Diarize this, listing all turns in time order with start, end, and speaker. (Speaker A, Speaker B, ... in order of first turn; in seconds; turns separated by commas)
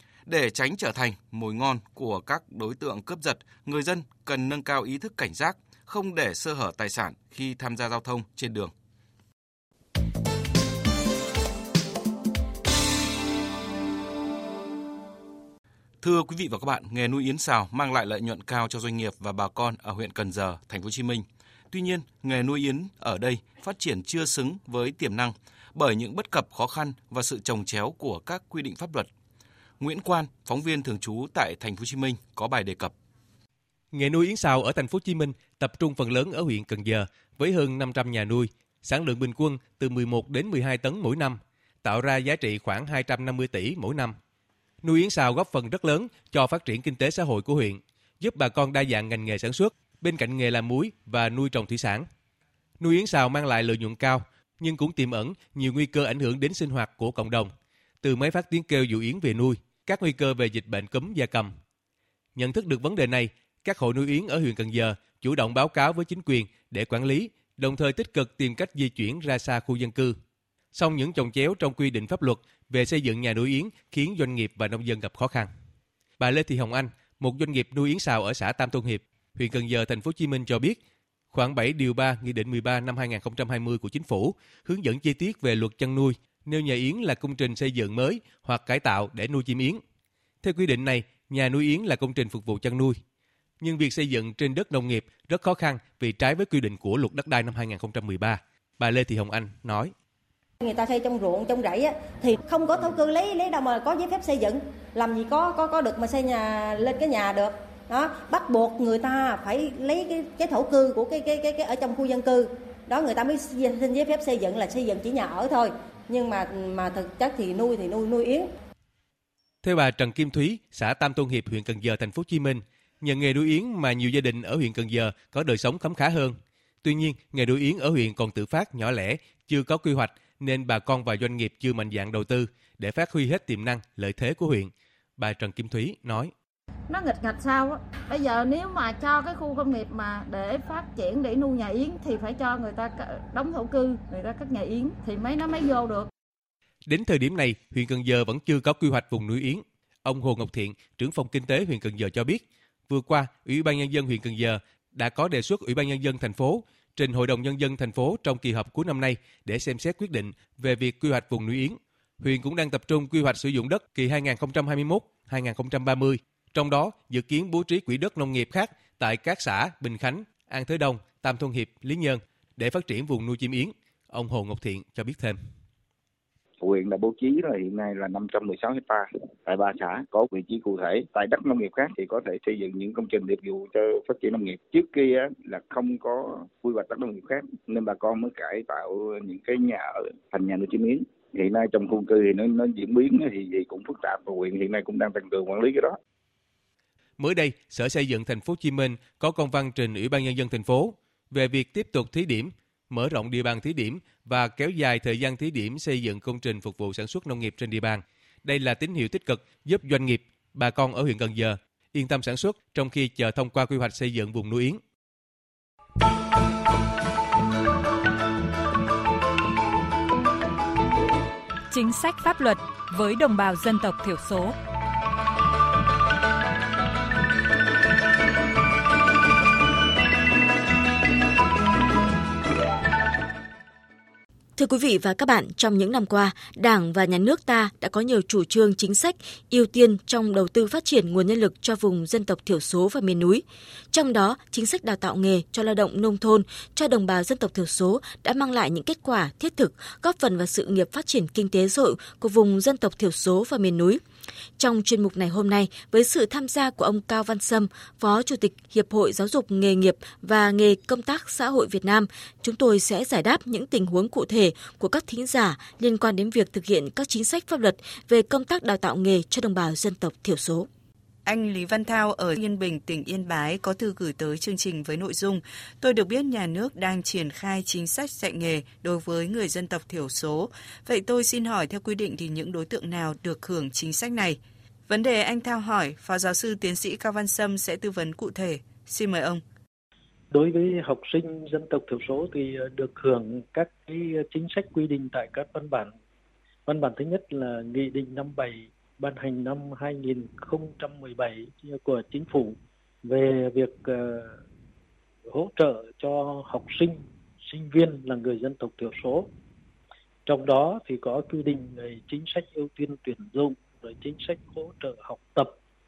Speaker A: 0.3-8.7, Speaker A: 16.0-29.1, Speaker A: 29.8-32.9, Speaker B: 33.9-44.1, Speaker B: 44.8-52.0, Speaker B: 52.8-57.5, Speaker B: 58.0-61.5, Speaker B: 62.4-70.1, Speaker B: 70.7-75.5, Speaker B: 76.2-80.8, Speaker B: 81.3-89.8, Speaker B: 90.4-93.0, Speaker B: 93.6-99.9, Speaker C: 100.6-118.5, Speaker B: 119.6-136.3, Speaker D: 136.9-146.1, Speaker B: 146.9-175.4, Speaker E: 176.6-196.0, Speaker B: 197.2-214.8, Speaker F: 221.7-224.5, Speaker G: 234.6-254.0, Speaker G: 254.6-270.7, Speaker H: 271.3-289.4, Speaker I: 290.3-295.9, Speaker I: 296.7-304.4, Speaker I: 305.3-309.3, Speaker I: 310.3-315.6